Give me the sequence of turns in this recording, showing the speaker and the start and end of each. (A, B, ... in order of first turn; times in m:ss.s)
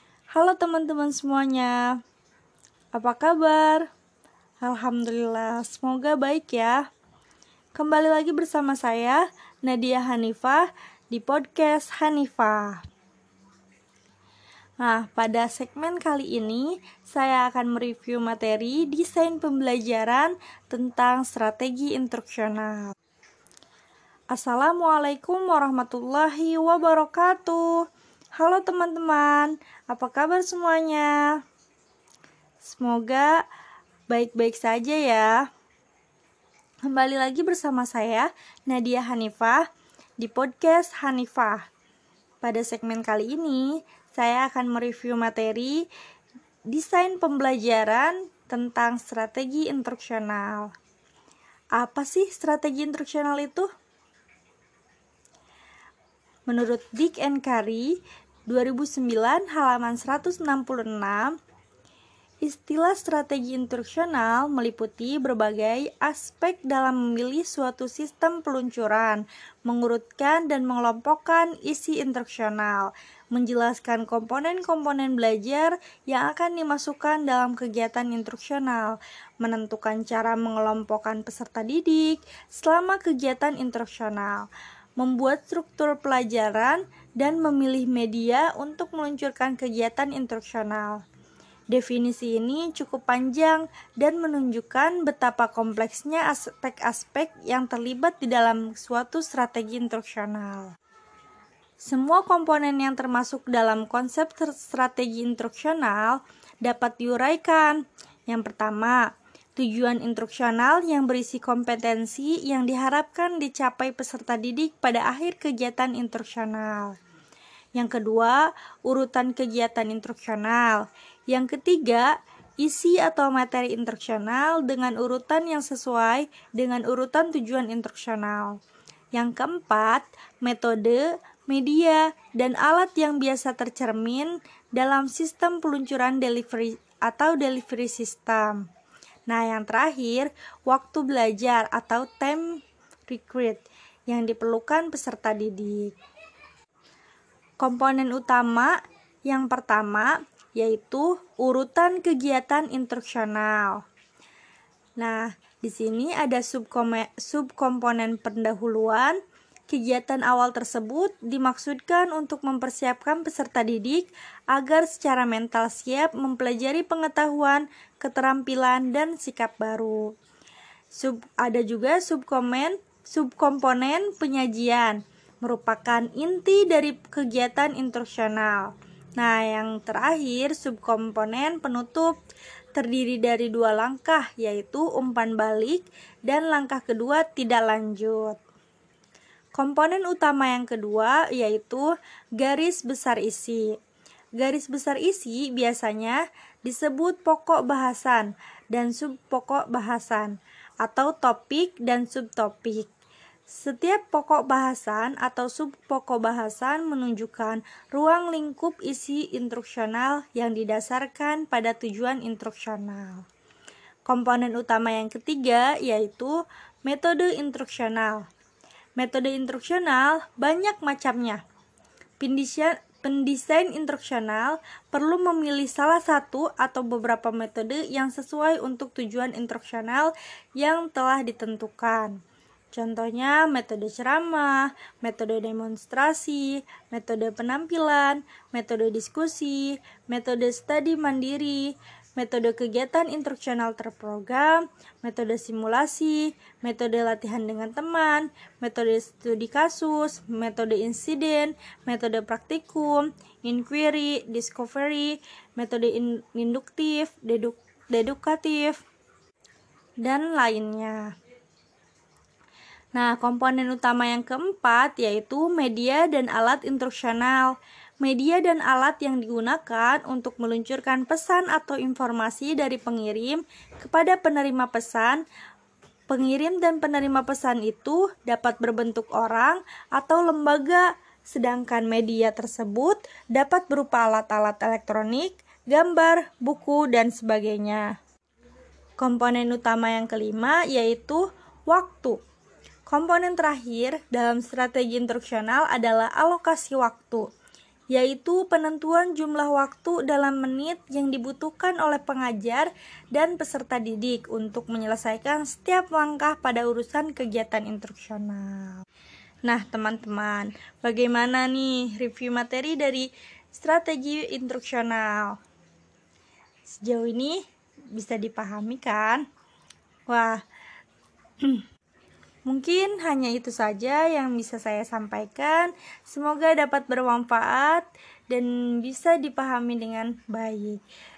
0:00.4-0:01.9 A
0:02.9-0:03.9 A
0:04.6-0:06.8 A
0:07.8-0:12.8 A
0:14.8-0:22.9 A
0:24.3-0:27.8 A
0:28.4-0:31.4 A
0:32.6-0:33.4 A
0:34.1-0:35.5 A
0:36.9-0:39.6 A
0:40.2-0:41.7 A
0:42.4-0:45.8 A
0:46.7-0:50.7 A
0:51.8-0:53.7 A
0:56.5-1:01.4 A
1:02.4-1:31.0 A
1:31.7-1:40.7 A
1:41.8-1:57.0 A
1:57.8-2:08.6 A
2:09.1-2:18.7 A
2:19.3-2:25.9 A
2:27.6-2:33.8 A
2:35.0-2:50.1 A
2:50.9-3:02.2 A
3:02.8-3:08.4 A
3:09.6-3:13.7 A
3:14.4-3:22.9 A
3:23.5-3:33.3 A
3:34.1-3:38.3 A
3:39.0-3:41.4 A
3:42.2-3:52.2 A
3:52.7-4:18.8 A
4:20.0-4:21.1 A
4:22.9-4:35.2 A
4:36.1-4:48.0 A
4:49.0-4:52.2 A
4:52.9-4:57.3 A
4:57.9-5:08.8 A
5:09.5-5:15.4 A
5:16.7-5:19.3 A
5:20.1-5:20.4 A
5:22.5-5:30.8 A